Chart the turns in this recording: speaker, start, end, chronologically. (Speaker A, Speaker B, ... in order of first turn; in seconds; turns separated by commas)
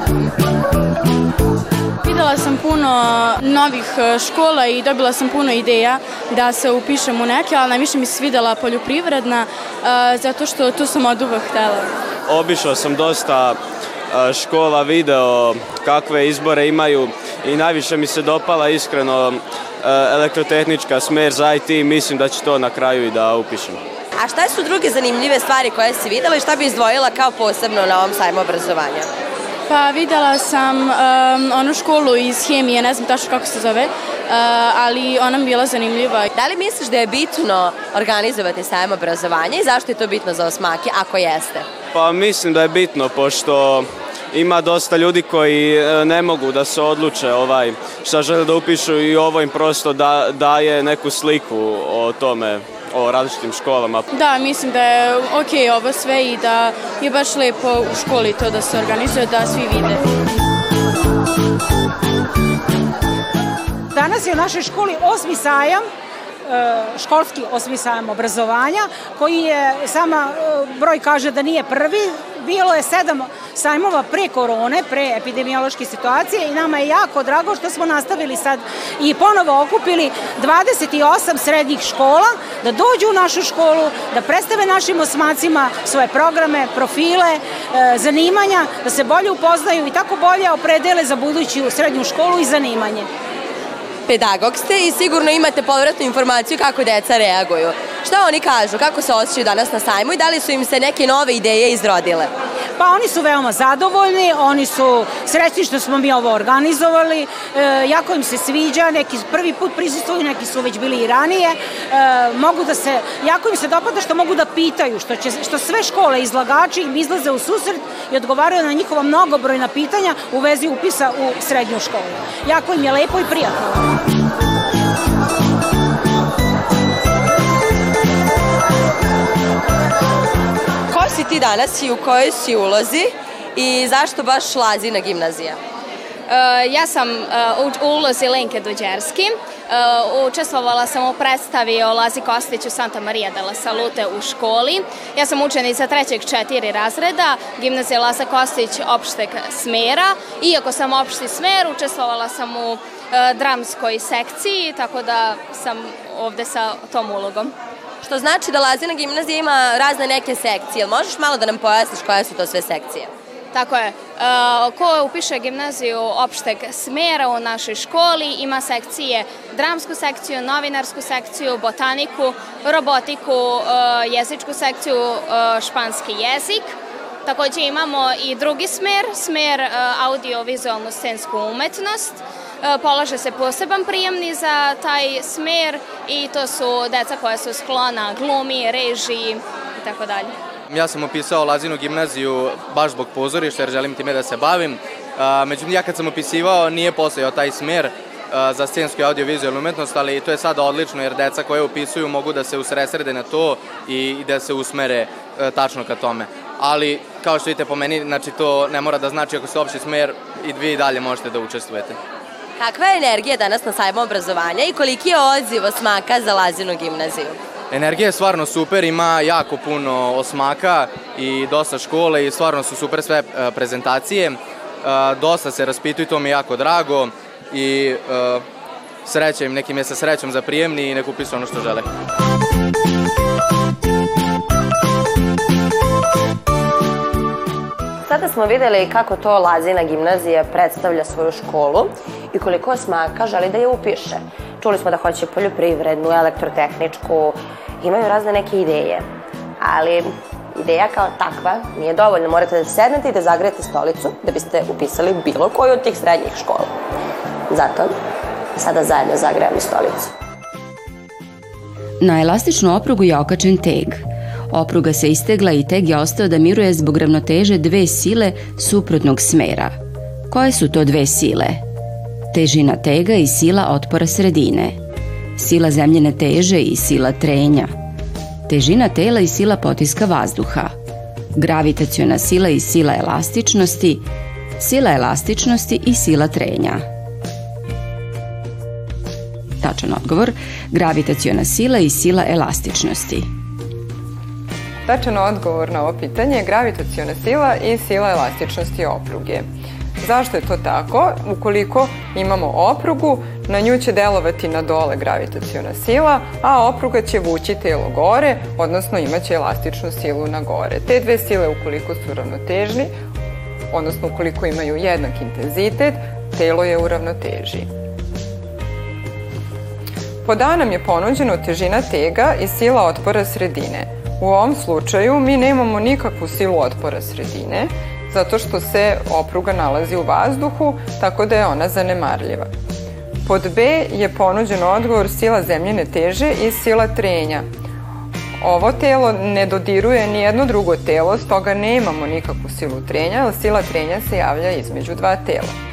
Speaker A: 2.0-11.9, Speaker B: 12.3-13.6, Speaker B: 14.1-23.8, Speaker C: 24.2-29.1, Speaker A: 29.7-36.3, Speaker C: 36.3-41.7, Speaker B: 41.9-54.1, Speaker A: 54.1-60.0, Speaker D: 63.9-65.8, Speaker D: 66.5-93.1, Speaker C: 94.1-102.3, Speaker D: 102.8-123.8, Speaker C: 130.9-135.6, Speaker E: 136.3-157.5, Speaker C: 158.0-163.1, Speaker E: 163.5-176.7, Speaker E: 177.2-190.3, Speaker F: 190.7-212.0, Speaker C: 212.6-217.4, Speaker F: 217.7-228.4, Speaker F: 229.1-231.8, Speaker C: 238.1-249.1, Speaker C: 249.6-256.7, Speaker C: 257.5-257.9, Speaker C: 258.6-260.1, Speaker G: 262.0-269.7, Speaker G: 270.3-271.6, Speaker G: 272.3-274.8, Speaker G: 275.4-277.7, Speaker G: 278.5-280.7, Speaker G: 281.4-284.0, Speaker G: 284.6-286.8, Speaker G: 289.6-293.3, Speaker H: 294.9-299.5, Speaker H: 300.0-312.9, Speaker H: 313.7-317.7, Speaker H: 320.2-332.5, Speaker H: 333.3-337.4, Speaker H: 338.4-345.5